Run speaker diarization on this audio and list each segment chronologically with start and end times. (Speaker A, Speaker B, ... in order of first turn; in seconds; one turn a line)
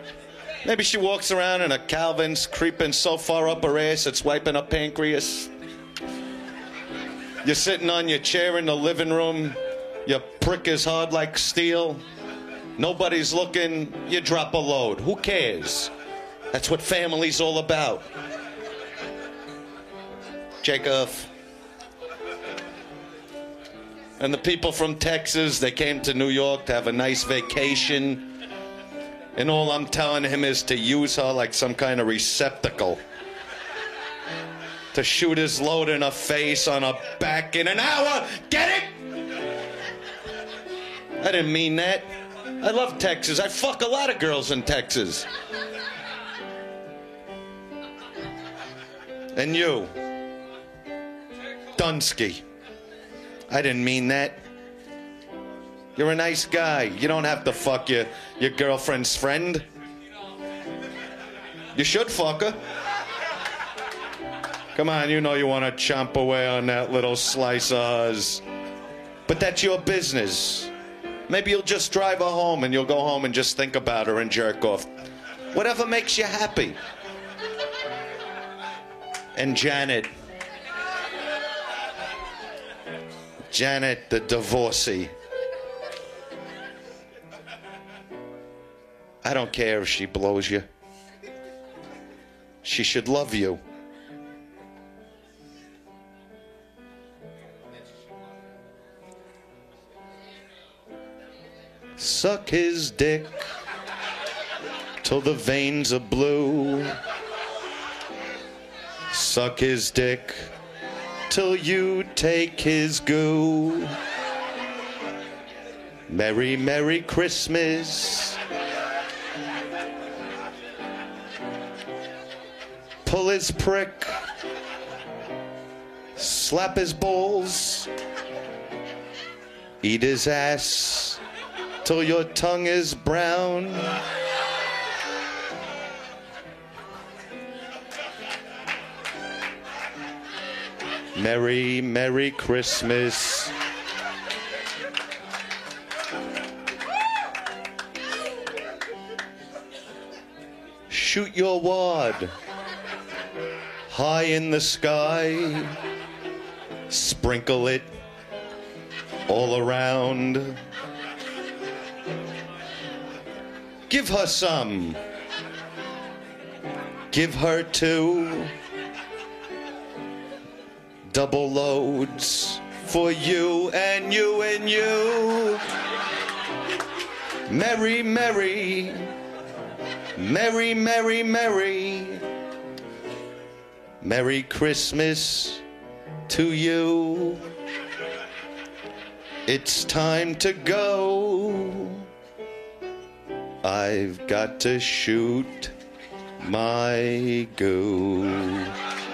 Speaker A: 0.6-5.5
Speaker A: 7.4-12.0
Speaker A: 12.8-15.9
Speaker A: 16.5-18.1
Speaker A: 20.6-21.3
Speaker A: 24.2-28.3
Speaker A: 29.3-33.0
Speaker A: 34.9-39.0
Speaker A: 41.2-45.3
Speaker A: 49.3-50.0
Speaker A: 51.7-52.4
Speaker A: 53.5-54.4
Speaker A: 55.9-59.6
Speaker A: 61.7-62.6
Speaker A: 64.7-68.4
Speaker A: 69.3-70.7
Speaker A: 71.3-74.9
Speaker A: 75.5-76.8
Speaker A: 79.3-80.1
Speaker A: 83.5-85.1
Speaker A: 89.2-90.7
Speaker A: 92.6-93.6
Speaker A: 102.0-103.4
Speaker A: 105.0-107.0
Speaker A: 109.1-110.5
Speaker A: 111.3-113.9
Speaker A: 116.1-118.4
Speaker A: 123.0-124.1
Speaker A: 126.2-127.9
Speaker A: 129.8-131.2
Speaker A: 131.8-134.0
Speaker A: 141.1-143.5
Speaker A: 150.9-152.3
Speaker A: 153.9-155.8
Speaker A: 156.9-157.9
Speaker A: 159.3-160.6
Speaker A: 163.9-165.0
Speaker A: 167.1-168.5
Speaker A: 171.1-175.6
Speaker A: 177.5-179.1
Speaker A: 180.2-182.2
Speaker A: 184.0-185.6
Speaker A: 186.3-187.5
Speaker A: 189.4-192.1
Speaker A: 193.6-195.7
Speaker A: 196.4-198.7